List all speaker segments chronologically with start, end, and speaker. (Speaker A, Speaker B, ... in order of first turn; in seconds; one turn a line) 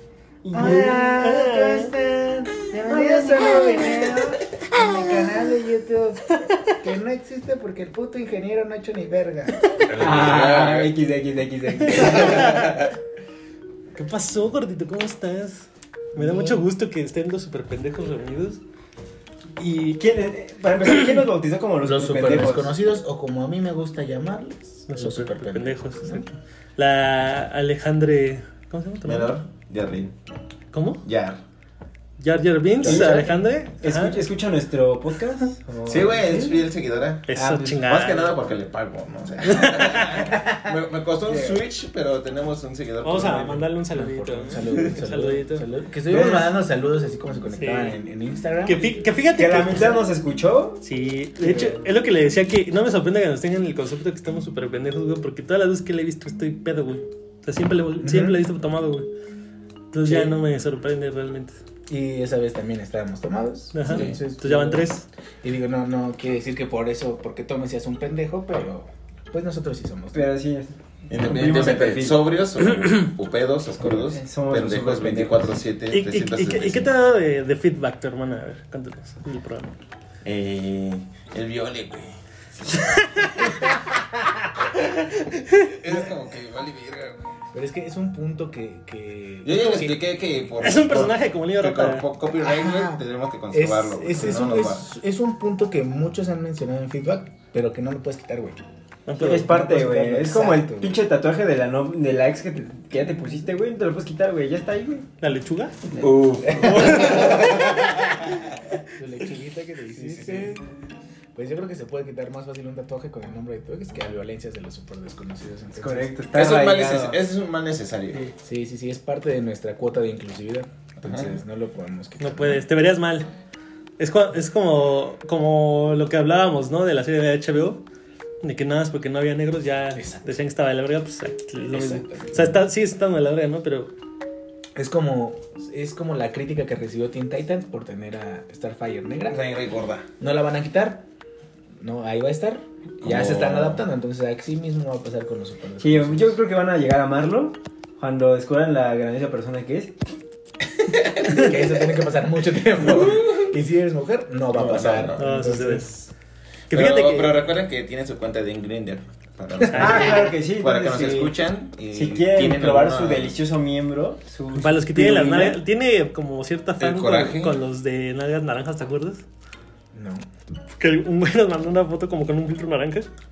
Speaker A: 0.4-1.3
Speaker B: 0.5-9.6
Speaker C: 0.6-1.9
Speaker A: 2.9-3.9
Speaker D: 9.9-10.9
Speaker A: 10.0-12.7
Speaker C: 11.8-12.8
Speaker D: 11.9-12.9
Speaker C: 13.9-18.6
Speaker B: 16.1-16.6
Speaker C: 19.6-20.0
Speaker A: 19.7-22.7
Speaker B: 21.8-26.2
Speaker C: 24.9-29.3
Speaker D: 29.1-30.1
Speaker C: 30.7-31.0
Speaker D: 31.0-31.4
Speaker C: 32.2-34.2
Speaker A: 32.8-36.4
Speaker B: 32.8-33.3
Speaker D: 35.9-37.3
Speaker B: 36.0-36.6
Speaker C: 37.3-38.3
Speaker A: 37.4-37.9
Speaker D: 37.8-43.6
Speaker C: 39.4-40.3
Speaker A: 41.2-41.6
Speaker C: 43.0-45.7
Speaker B: 43.9-49.1
Speaker D: 44.6-44.9
Speaker A: 46.1-46.5
Speaker C: 47.6-48.0
Speaker C: 48.7-50.0
Speaker A: 49.3-50.8
Speaker C: 50.8-59.1
Speaker A: 51.4-51.9
Speaker B: 58.0-58.4
Speaker C: 59.9-61.6
Speaker B: 60.0-60.4
Speaker B: 61.9-70.3
Speaker C: 63.7-65.1
Speaker D: 63.8-64.2
Speaker A: 70.1-72.2
Speaker D: 71.1-76.9
Speaker A: 73.8-75.5
Speaker B: 73.9-74.2
Speaker C: 75.9-79.7
Speaker D: 80.2-83.8
Speaker D: 84.7-87.2
Speaker B: 87.5-90.0
Speaker D: 89.4-94.9
Speaker C: 90.6-92.1
Speaker B: 92.4-93.0
Speaker B: 93.5-98.6
Speaker C: 99.1-99.5
Speaker A: 99.2-105.1
Speaker B: 99.5-101.0
Speaker C: 105.2-105.8
Speaker A: 105.9-107.0
Speaker D: 106.0-108.2
Speaker B: 106.5-107.6
Speaker C: 106.6-107.5
Speaker B: 109.0-110.6
Speaker D: 110.0-110.5
Speaker B: 111.3-116.1
Speaker A: 115.7-117.2
Speaker D: 116.3-118.2
Speaker B: 118.4-122.7
Speaker D: 121.0-121.3
Speaker C: 122.2-123.3
Speaker C: 124.0-127.8
Speaker C: 128.4-133.9
Speaker B: 130.0-130.3
Speaker B: 131.6-132.6
Speaker B: 134.8-139.4
Speaker D: 139.3-140.1
Speaker B: 140.2-141.1
Speaker B: 141.8-146.4
Speaker D: 143.0-143.8
Speaker A: 145.8-149.9
Speaker D: 151.2-151.6
Speaker B: 151.3-156.1
Speaker D: 152.8-153.5
Speaker D: 154.5-155.2
Speaker C: 155.2-155.9
Speaker C: 156.7-157.4
Speaker D: 156.7-163.3
Speaker B: 159.6-160.2
Speaker C: 159.7-160.1
Speaker A: 159.7-161.3
Speaker A: 161.9-165.6
Speaker C: 164.6-169.2
Speaker D: 166.8-167.6
Speaker B: 169.9-170.3
Speaker C: 170.8-173.1